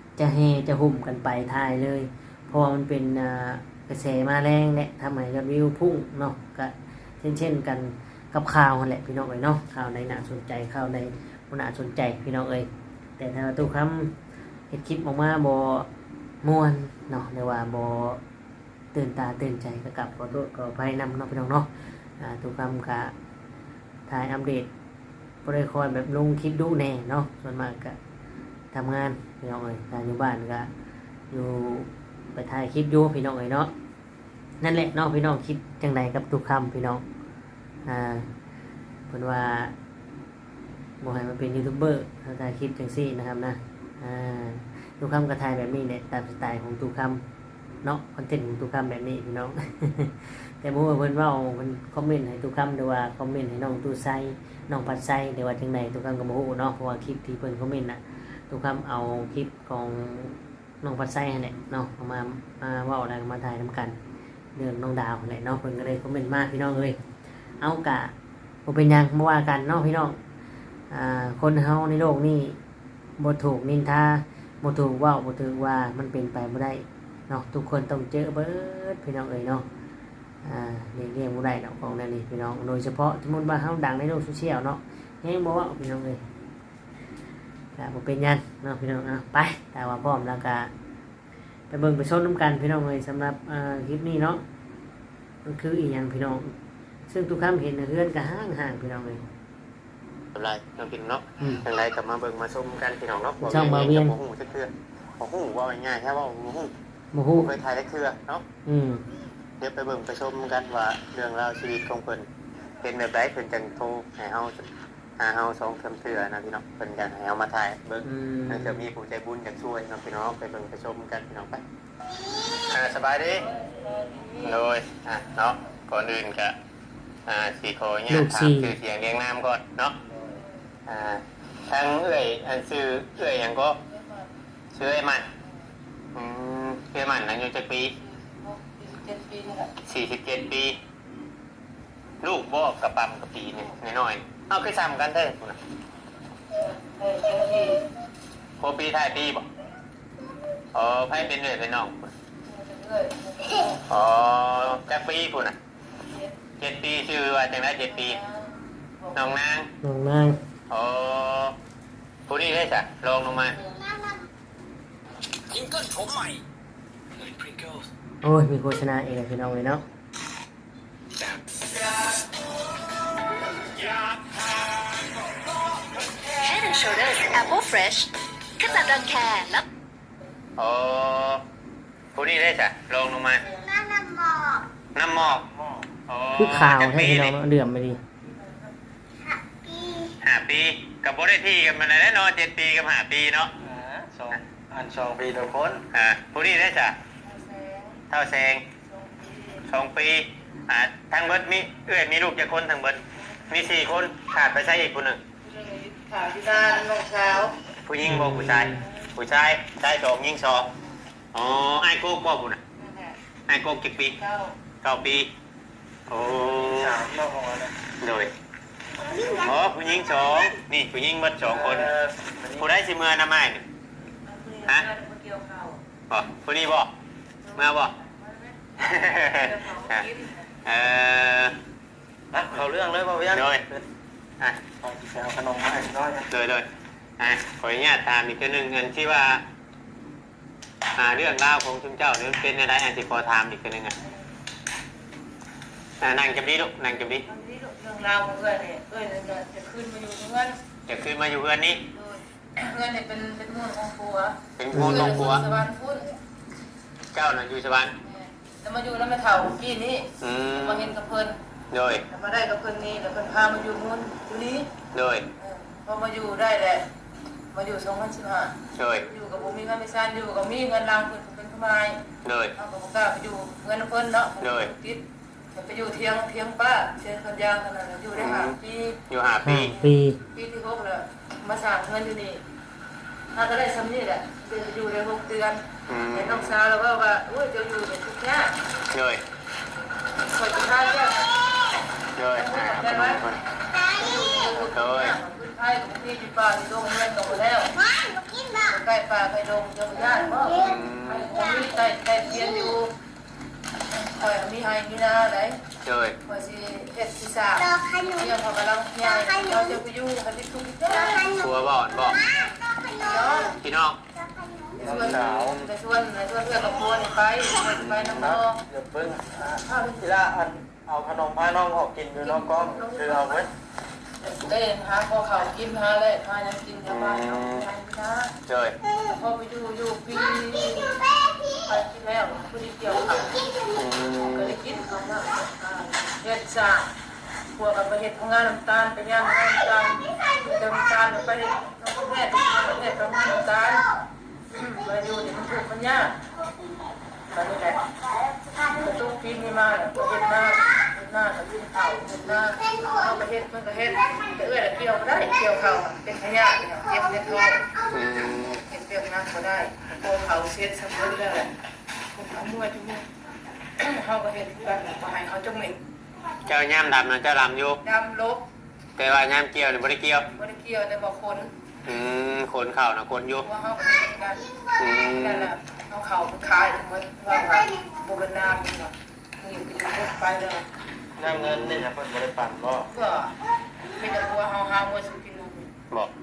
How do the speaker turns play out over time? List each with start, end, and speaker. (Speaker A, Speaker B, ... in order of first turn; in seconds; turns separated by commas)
Speaker A: 0.2-14.1, Speaker A: 14.7-15.9, Speaker A: 16.4-18.2, Speaker A: 18.9-21.7, Speaker A: 22.2-23.1, Speaker A: 24.1-24.7, Speaker A: 25.4-28.0, Speaker A: 28.7-30.7, Speaker A: 31.3-33.7, Speaker A: 34.6-37.0, Speaker A: 37.9-38.3, Speaker A: 39.1-39.7, Speaker A: 41.0-47.2, Speaker A: 47.8-64.0, Speaker A: 64.5-67.0, Speaker A: 67.6-68.1, Speaker A: 68.7-70.2, Speaker A: 70.9-72.6, Speaker A: 73.2-79.7, Speaker A: 80.4-86.2, Speaker A: 87.8-90.7, Speaker A: 91.7-94.4, Speaker A: 95.4-96.5, Speaker A: 97.1-99.2, Speaker B: 100.3-106.7, Speaker A: 103.4-104.2, Speaker A: 107.1-107.5, Speaker B: 107.4-108.4, Speaker A: 108.6-109.0, Speaker B: 109.6-112.2, Speaker B: 112.8-114.6, Speaker B: 115.2-121.6, Speaker A: 118.0-118.9, Speaker B: 122.7-123.5, Speaker C: 123.3-124.6, Speaker B: 124.4-126.5, Speaker B: 127.3-129.9, Speaker A: 128.1-128.8, Speaker D: 130.0-130.4, Speaker B: 130.8-133.8, Speaker C: 133.9-134.3, Speaker B: 134.7-135.2, Speaker B: 136.1-137.9, Speaker C: 138.0-139.7, Speaker B: 139.9-140.8, Speaker B: 142.2-145.6, Speaker C: 146.5-147.8, Speaker B: 148.6-149.4, Speaker B: 150.7-152.1, Speaker C: 152.4-153.8, Speaker B: 153.9-155.6, Speaker C: 156.0-156.3, Speaker B: 156.6-158.2, Speaker C: 157.8-159.3, Speaker B: 159.1-159.7, Speaker A: 159.8-160.4, Speaker B: 160.7-161.5, Speaker B: 162.3-163.5, Speaker C: 163.5-163.8, Speaker E: 165.5-166.4, Speaker E: 167.1-167.8, Speaker A: 168.2-169.8, Speaker E: 171.2-171.6, Speaker E: 173.7-176.4, Speaker F: 176.5-178.1, Speaker F: 178.6-179.6, Speaker B: 180.6-181.4, Speaker B: 182.1-183.4, Speaker C: 183.5-184.0, Speaker B: 184.9-185.4, Speaker D: 185.3-185.8, Speaker B: 186.1-187.3, Speaker A: 186.3-188.0, Speaker C: 188.3-188.7, Speaker B: 190.2-193.5, Speaker D: 193.6-195.8, Speaker B: 195.9-196.9, Speaker C: 197.2-198.0, Speaker B: 198.1-198.6, Speaker C: 198.9-199.7, Speaker B: 199.7-205.2, Speaker C: 205.4-207.5, Speaker B: 207.8-210.7, Speaker A: 208.0-208.8, Speaker C: 208.8-209.1, Speaker B: 211.3-212.6, Speaker C: 212.8-213.2, Speaker B: 213.5-214.1, Speaker C: 214.2-214.5, Speaker B: 214.8-215.3, Speaker B: 216.1-216.9, Speaker D: 216.4-217.8, Speaker B: 218.0-218.3, Speaker C: 219.2-219.4, Speaker B: 219.3-221.9, Speaker D: 221.4-222.7, Speaker B: 222.6-223.6, Speaker C: 224.2-225.8, Speaker B: 226.1-226.9, Speaker C: 227.4-228.6, Speaker B: 227.6-227.9, Speaker B: 228.8-230.0, Speaker C: 229.1-230.5, Speaker B: 230.6-231.6, Speaker D: 232.3-233.8, Speaker B: 233.3-233.6, Speaker D: 234.8-236.3, Speaker B: 236.3-236.7, Speaker B: 237.2-239.4, Speaker B: 240.9-243.9, Speaker B: 246.0-247.2, Speaker C: 247.2-250.6, Speaker B: 250.9-251.8, Speaker C: 251.9-256.1, Speaker B: 254.6-255.4, Speaker A: 254.7-255.3, Speaker B: 257.1-257.9, Speaker C: 258.0-261.4, Speaker B: 260.2-260.9, Speaker B: 261.7-262.0, Speaker C: 262.1-264.7, Speaker B: 264.9-265.3, Speaker C: 265.4-266.9, Speaker C: 267.5-272.0, Speaker B: 268.8-269.0, Speaker B: 272.2-272.5, Speaker C: 272.5-275.0, Speaker B: 274.4-274.7, Speaker C: 275.5-282.4, Speaker B: 278.2-278.6, Speaker B: 279.1-279.8, Speaker A: 279.4-280.2, Speaker C: 283.3-288.6, Speaker B: 285.9-286.6, Speaker B: 288.9-289.2, Speaker C: 290.2-291.5, Speaker B: 292.1-293.4, Speaker C: 292.3-297.8, Speaker B: 294.7-295.1, Speaker C: 298.5-302.9, Speaker B: 300.5-301.3, Speaker C: 303.9-305.6, Speaker B: 305.8-306.1, Speaker C: 306.2-311.3, Speaker B: 311.3-312.2, Speaker C: 312.9-313.6, Speaker B: 313.6-314.0, Speaker C: 314.8-318.6, Speaker D: 314.8-315.6, Speaker B: 315.0-315.6, Speaker B: 317.8-318.3, Speaker D: 318.2-319.3, Speaker C: 319.3-320.1, Speaker D: 320.0-323.5, Speaker C: 322.2-323.5, Speaker C: 324.2-328.3, Speaker B: 326.9-327.6, Speaker B: 328.5-328.7, Speaker C: 328.9-331.0, Speaker C: 331.5-333.4, Speaker B: 333.8-334.6, Speaker C: 334.3-336.9, Speaker C: 337.6-343.9, Speaker C: 344.5-346.2, Speaker C: 347.3-347.9, Speaker C: 348.6-357.6, Speaker B: 357.9-358.6, Speaker C: 358.6-361.5, Speaker C: 362.1-363.1, Speaker C: 363.8-365.8, Speaker B: 366.4-367.8, Speaker C: 367.8-368.4, Speaker B: 369.0-370.2, Speaker C: 370.3-371.5, Speaker B: 371.8-373.4, Speaker C: 373.4-374.4, Speaker B: 374.8-375.5, Speaker C: 375.1-380.6, Speaker D: 381.2-382.9, Speaker B: 381.2-381.9, Speaker C: 382.9-383.3, Speaker C: 383.9-385.7